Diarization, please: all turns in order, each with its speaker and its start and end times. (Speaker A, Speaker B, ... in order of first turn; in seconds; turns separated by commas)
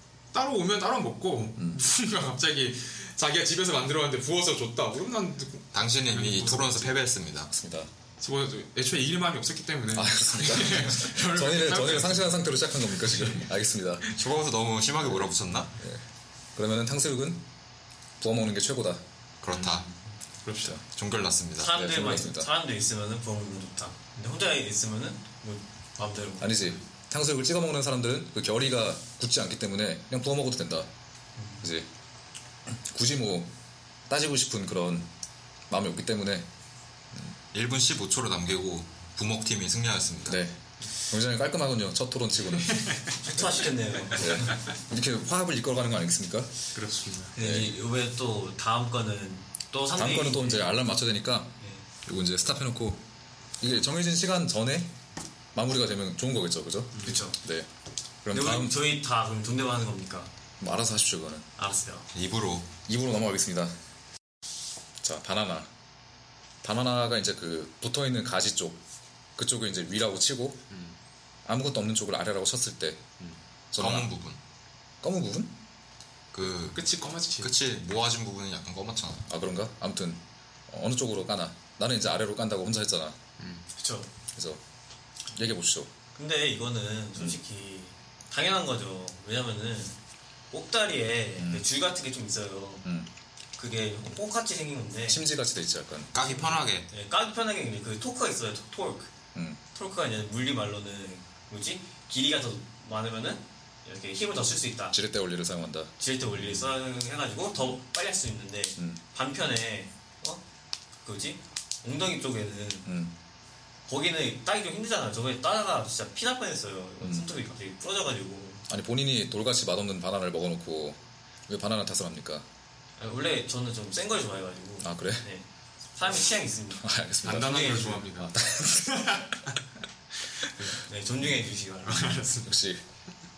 Speaker A: 0.3-7.0, Speaker B: 1.6-1.8, Speaker C: 5.7-7.5, Speaker B: 7.5-7.9, Speaker A: 8.2-12.4, Speaker B: 9.9-14.1, Speaker A: 13.1-13.4, Speaker C: 14.1-15.7, Speaker B: 15.1-16.0, Speaker B: 16.6-17.4, Speaker B: 18.2-19.0, Speaker C: 19.4-19.9, Speaker A: 19.5-20.8, Speaker C: 20.8-21.7, Speaker D: 21.6-26.6, Speaker B: 21.6-22.5, Speaker B: 26.4-30.9, Speaker D: 31.4-31.6, Speaker B: 31.6-31.9, Speaker B: 32.7-33.5, Speaker B: 34.1-35.1, Speaker B: 35.7-36.5, Speaker C: 37.5-40.4, Speaker B: 40.3-46.5, Speaker A: 42.7-43.1, Speaker D: 43.2-44.5, Speaker A: 46.7-47.3, Speaker D: 47.3-50.7, Speaker B: 47.4-47.8, Speaker B: 49.9-53.0, Speaker B: 53.6-54.9, Speaker B: 55.5-57.7, Speaker A: 57.0-57.2, Speaker D: 57.0-57.4, Speaker B: 58.2-58.8, Speaker D: 58.3-60.3, Speaker B: 60.6-61.5, Speaker D: 61.6-62.1, Speaker C: 62.1-62.7, Speaker B: 62.9-63.7, Speaker B: 65.0-65.7, Speaker B: 66.6-68.8, Speaker B: 69.4-70.6, Speaker A: 70.7-71.0, Speaker B: 71.4-73.0, Speaker B: 73.7-74.1, Speaker C: 73.8-74.4, Speaker B: 75.0-75.5, Speaker C: 76.3-79.2, Speaker A: 76.7-77.5, Speaker B: 79.3-83.2, Speaker A: 83.4-83.7, Speaker D: 83.8-84.1, Speaker B: 84.3-84.6, Speaker B: 85.3-85.9, Speaker D: 86.2-90.0, Speaker D: 90.5-92.8, Speaker B: 91.4-91.7, Speaker B: 92.8-93.1, Speaker D: 93.5-95.2, Speaker B: 95.1-96.1, Speaker C: 96.1-96.9, Speaker D: 96.2-99.1, Speaker D: 99.7-105.0, Speaker B: 104.9-106.6, Speaker D: 106.0-110.4, Speaker D: 111.0-112.9, Speaker B: 112.8-113.1, Speaker D: 113.8-118.7, Speaker B: 117.0-117.4, Speaker B: 118.7-122.5, Speaker D: 123.0-128.1, Speaker B: 124.8-125.3, Speaker B: 126.8-129.2, Speaker A: 127.2-129.5, Speaker D: 130.8-132.3, Speaker A: 131.9-132.6, Speaker B: 132.4-132.8